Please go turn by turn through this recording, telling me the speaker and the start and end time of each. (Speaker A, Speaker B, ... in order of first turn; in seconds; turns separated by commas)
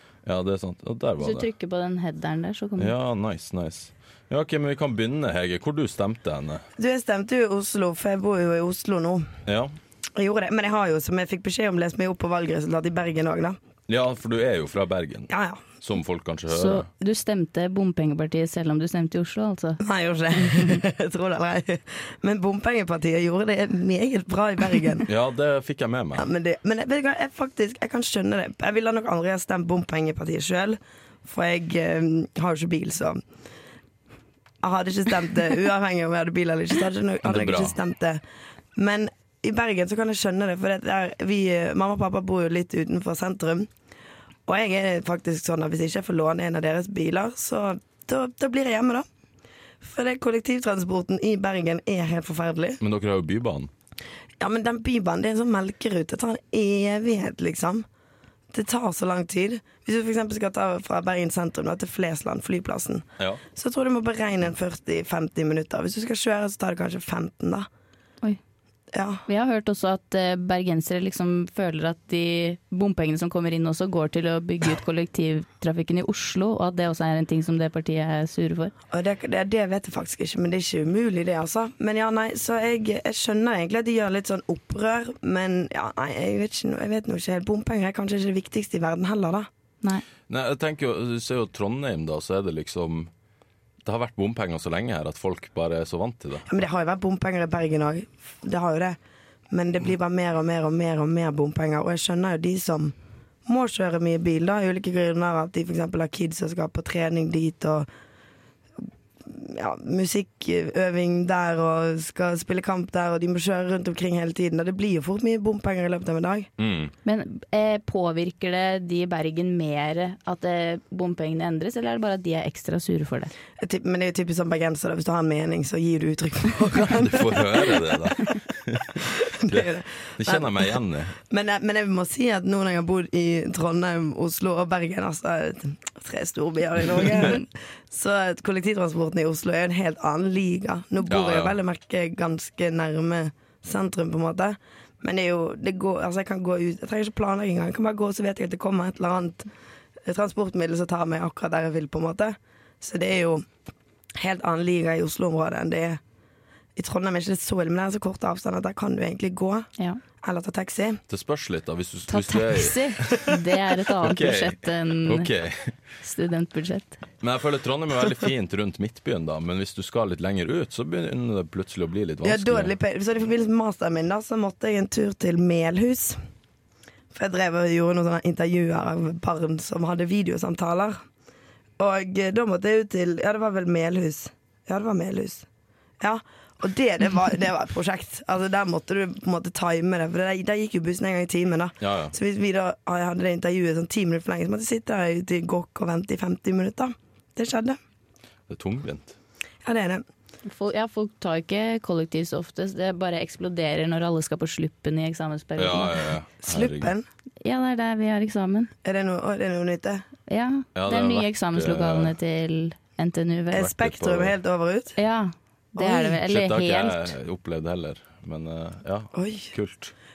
Speaker A: 0.2-1.5, Speaker B: 1.2-2.9, Speaker A: 2.8-6.7, Speaker C: 6.8-9.3, Speaker A: 9.4-9.7, Speaker C: 10.2-13.6, Speaker A: 13.9-16.9, Speaker C: 15.3-15.6, Speaker B: 16.5-19.8, Speaker C: 19.8-25.1, Speaker B: 20.4-20.8, Speaker A: 25.1-26.3, Speaker C: 26.1-33.2, Speaker C: 34.6-38.2, Speaker A: 37.2-37.8, Speaker C: 38.8-43.7, Speaker C: 44.5-49.0, Speaker C: 49.8-52.8, Speaker A: 52.8-53.7, Speaker C: 54.4-57.9, Speaker C: 58.5-67.7, Speaker C: 68.9-69.2, Speaker B: 69.3-78.7, Speaker C: 78.9-89.5, Speaker A: 90.3-93.1, Speaker A: 93.8-96.5, Speaker C: 96.5-99.0, Speaker C: 99.5-102.9, Speaker C: 103.5-107.9, Speaker C: 109.2-116.5, Speaker A: 116.6-116.9, Speaker B: 117.0-123.3, Speaker C: 123.6-128.1, Speaker A: 126.9-131.1, Speaker C: 129.0-149.5, Speaker A: 141.1-141.6, Speaker C: 150.1-153.4, Speaker C: 154.2-156.0, Speaker C: 156.8-159.7, Speaker C: 160.2-161.0, Speaker A: 161.1-163.3, Speaker B: 162.1-165.3, Speaker A: 164.0-165.7, Speaker B: 166.0-167.0, Speaker A: 167.2-172.7, Speaker C: 172.2-176.2, Speaker C: 177.1-181.0, Speaker C: 181.8-185.4, Speaker C: 186.0-197.8, Speaker A: 191.8-192.1, Speaker A: 198.5-199.2, Speaker C: 199.6-200.0, Speaker B: 200.4-206.0, Speaker A: 205.6-206.9, Speaker C: 206.4-207.1, Speaker B: 207.4-208.7, Speaker C: 208.8-210.1, Speaker B: 210.3-213.7, Speaker A: 210.8-212.1, Speaker C: 213.5-214.9, Speaker A: 213.6-214.3, Speaker B: 215.0-217.1, Speaker C: 215.8-216.2, Speaker A: 216.3-219.9, Speaker C: 219.1-219.5